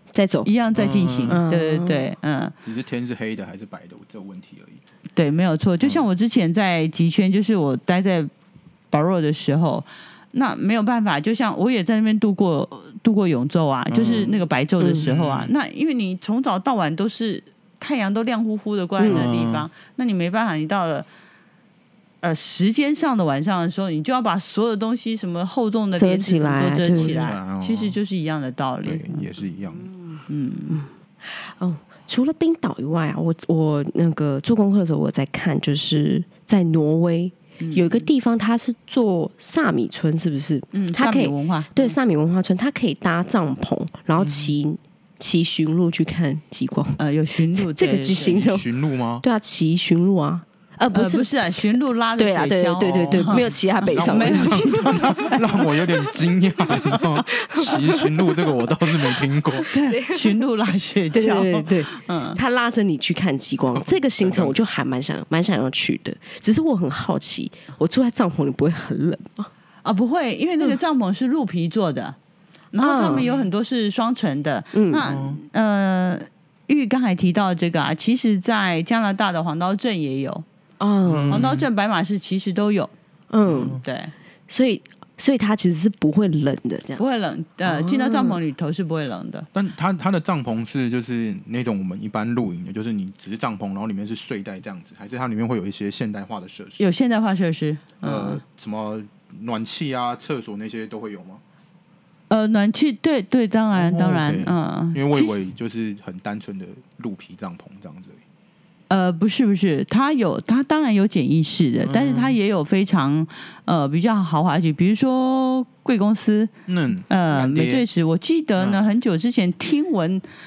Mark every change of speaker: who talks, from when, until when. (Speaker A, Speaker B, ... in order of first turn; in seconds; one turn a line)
Speaker A: 0.1-0.5
Speaker B: 0.4-2.5
Speaker C: 0.7-1.4
Speaker A: 1.3-2.1
Speaker C: 2.6-4.8
Speaker B: 5.1-8.3
Speaker B: 8.9-21.1
Speaker C: 13.9-14.4
Speaker A: 14.8-15.1
Speaker C: 15.0-15.5
Speaker A: 19.0-19.3
Speaker C: 19.0-19.7
Speaker B: 22.2-29.3
Speaker A: 25.9-27.3
Speaker C: 26.9-28.0
Speaker C: 28.8-29.9
Speaker A: 29.7-30.2
Speaker B: 30.3-30.8
Speaker A: 30.7-47.0
Speaker B: 37.6-38.1
Speaker B: 40.7-42.0
Speaker C: 44.2-44.5
Speaker B: 47.0-48.4
Speaker A: 47.5-48.7
Speaker C: 48.1-49.2
Speaker A: 49.2-51.3
Speaker B: 50.9-55.6
Speaker A: 52.2-55.4
Speaker C: 52.8-59.7
Speaker A: 56.8-60.4
Speaker B: 59.7-62.4
Speaker A: 61.1-69.5
Speaker C: 63.7-64.6
Speaker B: 69.8-72.2
Speaker B: 72.7-80.4
Speaker A: 72.8-73.3
Speaker A: 74.7-75.0
Speaker C: 75.0-75.4
Speaker A: 80.8-81.5
Speaker C: 81.1-81.7
Speaker B: 81.3-82.9
Speaker A: 83.3-83.8
Speaker C: 83.4-83.8
Speaker B: 83.6-84.1
Speaker A: 84.5-87.0
Speaker B: 87.0-89.5
Speaker A: 87.6-88.4
Speaker C: 89.5-96.9
Speaker B: 96.8-98.4
Speaker C: 98.0-101.4
Speaker B: 102.3-105.4
Speaker C: 103.7-108.2
Speaker B: 108.9-116.5
Speaker C: 111.8-112.4
Speaker C: 116.7-117.8
Speaker B: 117.1-120.2